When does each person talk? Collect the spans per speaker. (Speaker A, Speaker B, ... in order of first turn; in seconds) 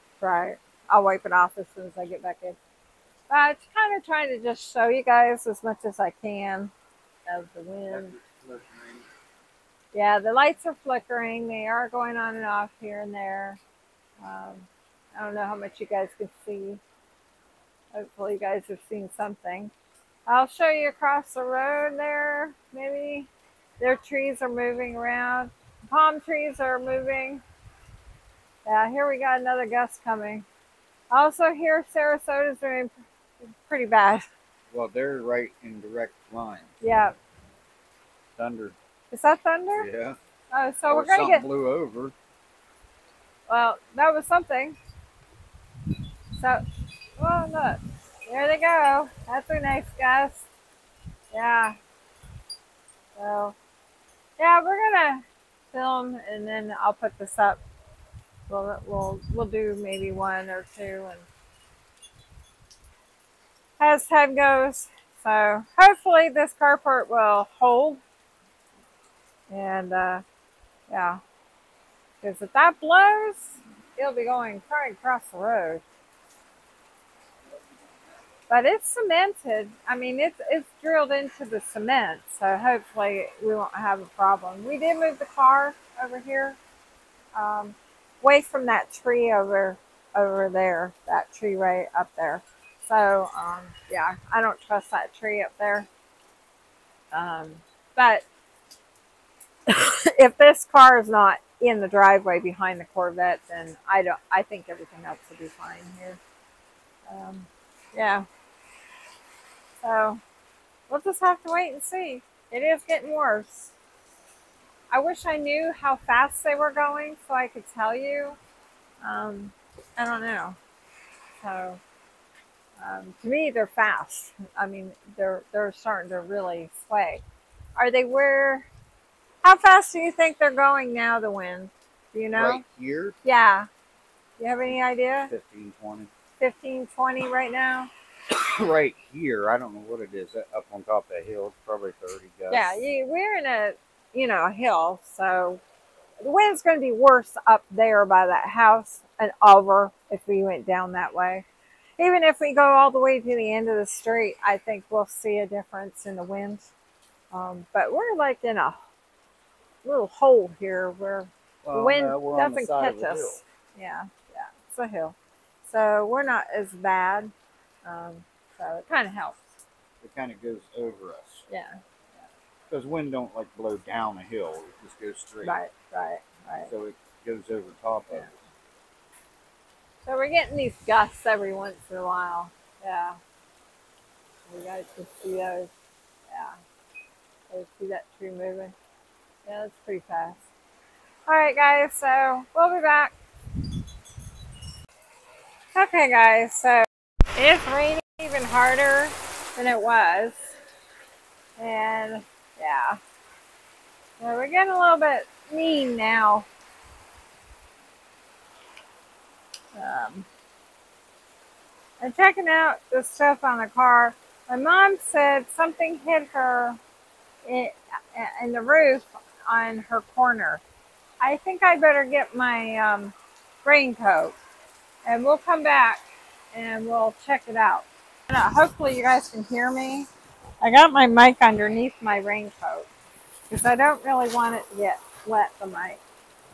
Speaker A: 0.2-2.6, 3.3-6.7, 7.3-8.2, 9.9-13.6, 14.2-16.8, 17.9-19.7, 20.3-27.4, 28.6-30.5, 31.1-34.2, 36.8-37.1, 39.1-39.9, 40.5-41.5, 43.5-44.8, 46.4-46.6, 47.2-50.5, 51.3-51.8, 53.2-53.5, 54.4-57.6, 58.5-61.3, 63.8-68.0, 69.5-70.2, 70.9-71.2, 72.2-75.8, 78.5-86.6, 87.3-95.9, 97.1-98.3, 99.7-106.2, 107.1-108.2, 109.8-110.2, 110.9-113.7, 114.9-118.4, 119.0-120.6, 121.4-121.8, 122.8-127.2, 127.8-128.7, 129.4-132.6, 133.2-133.7, 134.4-135.3, 136.4-137.9, 142.5-145.6, 146.2-151.5, 152.0-156.7, 157.3-158.8, 159.8-167.3, 167.8-169.5, 171.5-171.8, 175.4-176.7, 180.0-183.2, 184.5-185.7, 186.3-186.6, 187.5-188.8, 189.5-190.4, 191.3-193.1, 195.8-200.6, 201.6-203.0, 204.2-206.5, 209.7-210.3, 212.0-216.8, 217.4-220.6, 221.2-224.4, 225.1-230.1, 230.6-232.9, 233.5-236.0
Speaker B: 7.9-9.1, 34.7-36.7, 38.4-38.8, 39.8-40.2, 40.9-42.1, 132.3-133.2, 135.3-136.1, 138.3-142.8, 161.6-163.4, 170.0-171.4, 172.7-175.6, 176.7-178.3